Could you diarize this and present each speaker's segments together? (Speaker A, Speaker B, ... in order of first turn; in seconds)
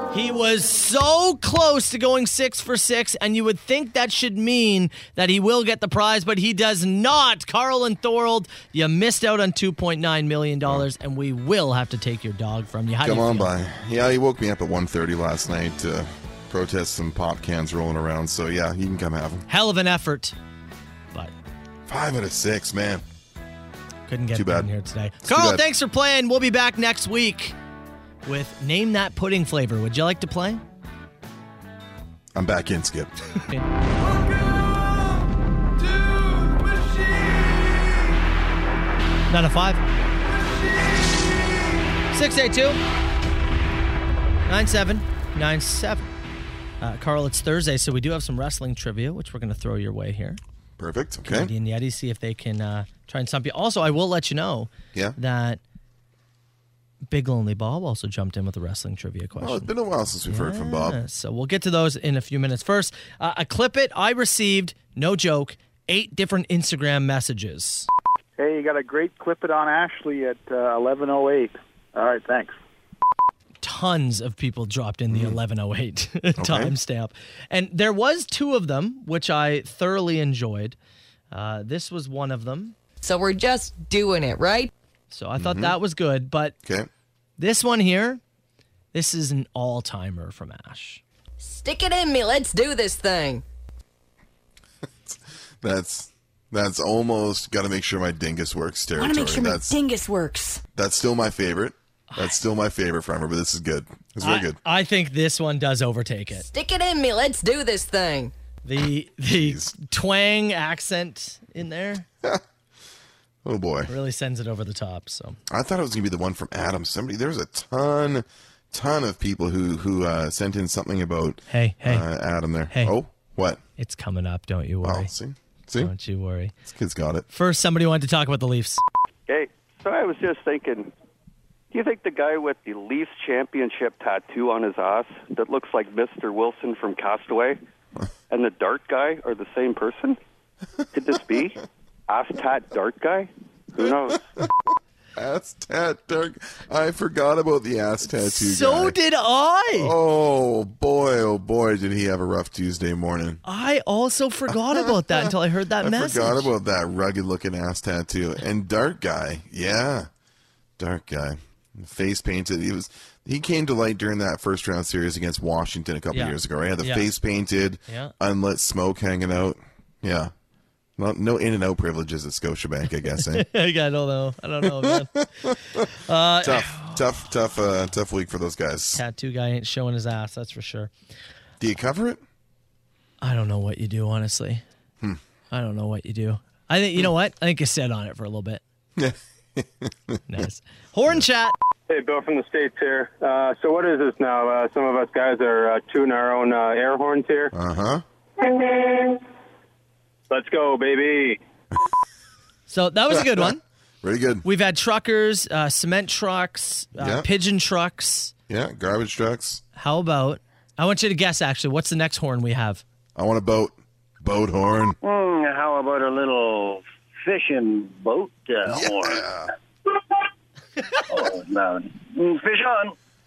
Speaker A: 0.1-13.5, 19.5-20.4, 24.1-27.6, 28.2-30.6, 33.4-33.7, 39.3-39.8, 42.1-42.8, 44.5-46.1, 46.8-50.4, 51.2-55.6, 57.1-59.7, 60.3-67.9, 73.6-80.8, 81.3-82.8, 85.1-86.6, 87.4-88.2, 88.9-91.0, 102.1-102.4, 104.2-106.5, 108.6-112.1, 113.9-115.4, 121.5-122.0, 123.8-125.1, 125.8-126.5, 127.3-128.8, 148.1-149.9, 153.4-156.5, 166.1-167.1, 167.9-168.1, 173.2-177.0, 178.9-180.9, 183.2-184.6, 185.5-188.6, 190.3-191.6, 202.7-203.6, 204.4-208.3, 209.8-212.8
Speaker B: 13.0-19.5, 21.9-23.0, 24.3-24.7, 25.2-25.6, 32.4-33.1, 50.8-51.5, 59.4-61.0, 75.1-75.4, 76.4-76.8, 85.4-85.8, 86.6-86.9, 95.0-99.8, 100.8-104.6, 109.3-109.7, 113.4-113.9, 115.5-123.6, 124.8-125.9, 126.7-127.2, 145.2-149.0, 149.7-153.4, 154.7-160.1, 160.8-170.3, 171.0-173.5, 174.7-175.6, 176.4-179.0, 181.6-182.2, 189.0-190.2, 197.5-198.0, 204.0-204.4, 207.0-207.3, 208.5-209.6, 213.2-215.0, 218.7-219.5
Speaker C: 68.4-72.6
Speaker D: 83.0-84.7, 91.4-93.4, 99.0-100.6, 106.3-108.3
Speaker E: 129.3-130.9, 131.7-137.6, 138.3-140.2, 140.9-144.2
Speaker F: 191.9-197.5, 200.3-201.4
Speaker G: 215.0-219.3, 221.1-222.9